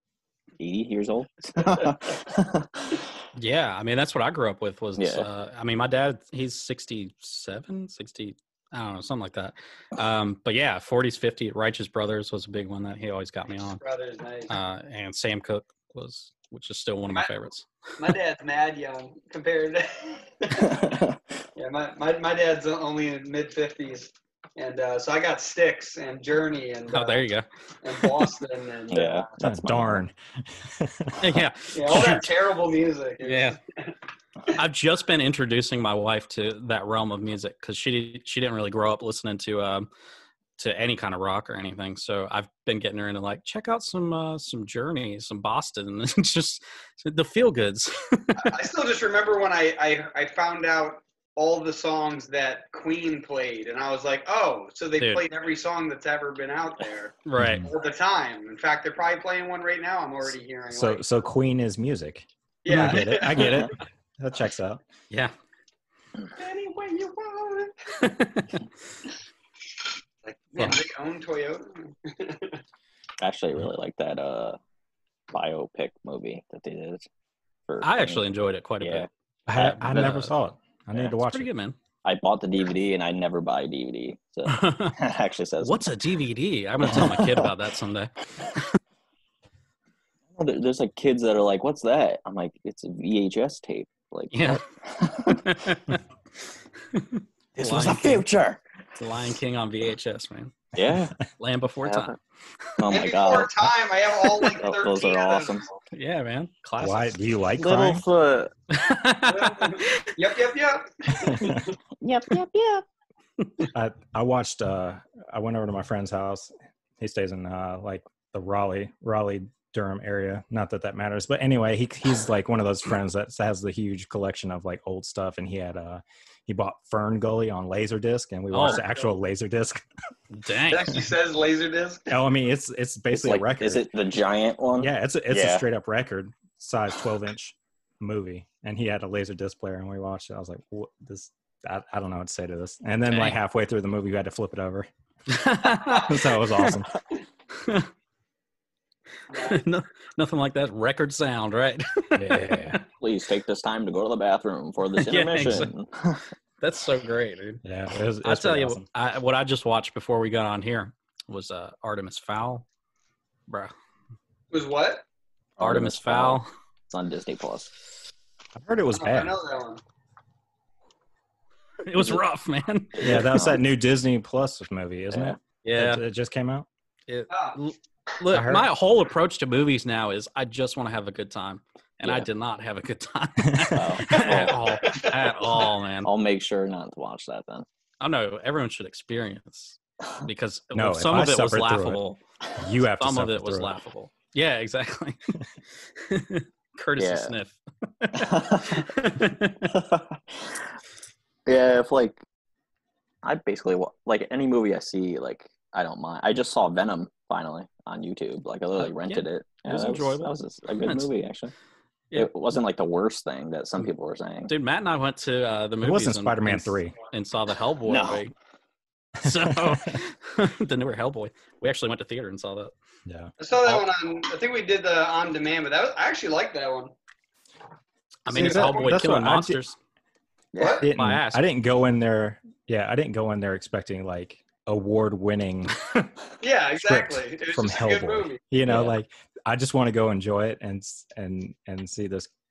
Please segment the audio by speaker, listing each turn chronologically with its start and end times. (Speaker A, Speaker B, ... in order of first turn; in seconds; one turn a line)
Speaker A: 0.6-3.0
Speaker B: 3.3-13.8
Speaker A: 5.0-5.3
Speaker C: 13.5-14.6
Speaker B: 14.5-17.7
Speaker C: 18.0-20.8
Speaker A: 20.5-21.2
Speaker C: 21.6-27.3
Speaker B: 26.9-28.3
Speaker C: 27.8-29.3
Speaker A: 28.9-30.0
Speaker D: 29.4-31.4
Speaker B: 31.2-32.3
Speaker C: 31.7-33.9
Speaker B: 33.2-33.6
Speaker B: 34.5-39.9
Speaker B: 40.6-48.5
Speaker C: 48.4-61.0
Speaker B: 55.0-55.2
Speaker B: 57.2-57.7
Speaker D: 57.4-57.7
Speaker D: 60.7-64.8
Speaker C: 62.6-63.7
Speaker B: 62.7-63.5
Speaker C: 66.4-67.8
Speaker B: 67.9-68.6
Speaker C: 70.2-72.6
Speaker A: 73.2-74.6
Speaker A: 75.3-77.0
Speaker A: 77.7-78.2
Speaker B: 77.8-80.3
Speaker A: 78.8-79.1
Speaker D: 79.5-81.5
Speaker B: 81.1-81.8
Speaker A: 82.0-85.9
Speaker B: 84.5-85.0
Speaker B: 85.6-88.8
Speaker A: 86.8-87.5
Speaker A: 90.3-95.6
Speaker B: 94.3-94.6
Speaker B: 95.2-96.0
Speaker B: 96.9-98.2
Speaker A: 97.5-98.6
Speaker B: 99.0-100.7
Speaker A: 100.7-101.1
Speaker B: 101.4-102.2
Speaker A: 101.8-102.1
Speaker A: 102.8-103.6
Speaker C: 102.9-105.7
Speaker A: 104.6-105.7
Speaker B: 105.9-107.2
Speaker D: 106.8-108.0
Speaker A: 107.6-108.5
Speaker B: 108.7-110.2
Speaker C: 109.2-111.8
Speaker D: 111.2-111.7
Speaker A: 112.0-112.8
Speaker B: 113.4-113.7
Speaker D: 113.7-129.8
Speaker B: 128.5-128.8
Speaker C: 128.6-129.0
Speaker B: 130.3-131.1
Speaker C: 130.7-132.2
Speaker D: 132.1-133.8
Speaker A: 133.1-135.6
Speaker D: 134.8-144.9
Speaker B: 143.1-143.4
Speaker B: 145.3-146.8
Speaker C: 145.8-146.1
Speaker D: 145.9-146.9
Speaker B: 147.6-147.9
Speaker C: 149.3-149.6
Speaker B: 149.3-152.8
Speaker D: 152.2-152.8
Speaker A: 153.0-156.2
Speaker B: 154.9-155.7
Speaker B: 156.6-157.6
Speaker D: 157.6-158.8
Speaker B: 158.2-162.6
Speaker C: 164.5-165.0
Speaker A: 165.6-167.7
Speaker B: 165.6-166.5
Speaker D: 168.6-169.3
Speaker C: 168.9-169.8
Speaker B: 171.8-173.2
Speaker A: 173.0-173.6
Speaker D: 173.0-176.7
Speaker A: 175.1-175.4
Speaker B: 175.6-176.0
Speaker B: 177.1-186.1
Speaker C: 177.3-177.6
Speaker D: 178.3-178.7
Speaker D: 183.4-183.9
Speaker A: 183.7-184.6
Speaker C: 184.1-185.7
Speaker A: 186.0-187.7
Speaker B: 188.0-192.2
Speaker D: 190.7-192.0
Speaker D: 192.6-193.7
Speaker B: 192.9-195.3
Speaker B: 195.9-199.7
Speaker A: 197.0-197.3
Speaker A: 198.1-198.9
Speaker A: 199.6-200.7
Speaker A: 201.4-202.2
Speaker A: 203.2-211.5
Speaker B: 208.8-210.3
Speaker B: 210.8-211.1
Speaker A: 212.1-214.5
Speaker B: 214.5-218.3
Speaker D: 215.8-216.9
Speaker A: 217.8-218.2
Speaker B: 219.2-222.7
Speaker D: 219.6-219.9
Speaker D: 223.1-223.3
Speaker C: 223.4-226.9
Speaker B: 228.2-229.8
Speaker D: 228.3-229.6
Speaker C: 228.3-229.1
Speaker A: 230.5-230.8
Speaker C: 230.6-230.9
Speaker D: 230.8-235.9
Speaker B: 230.8-231.4
Speaker C: 236.4-238.4
Speaker D: 236.7-242.3
Speaker A: 238.6-238.9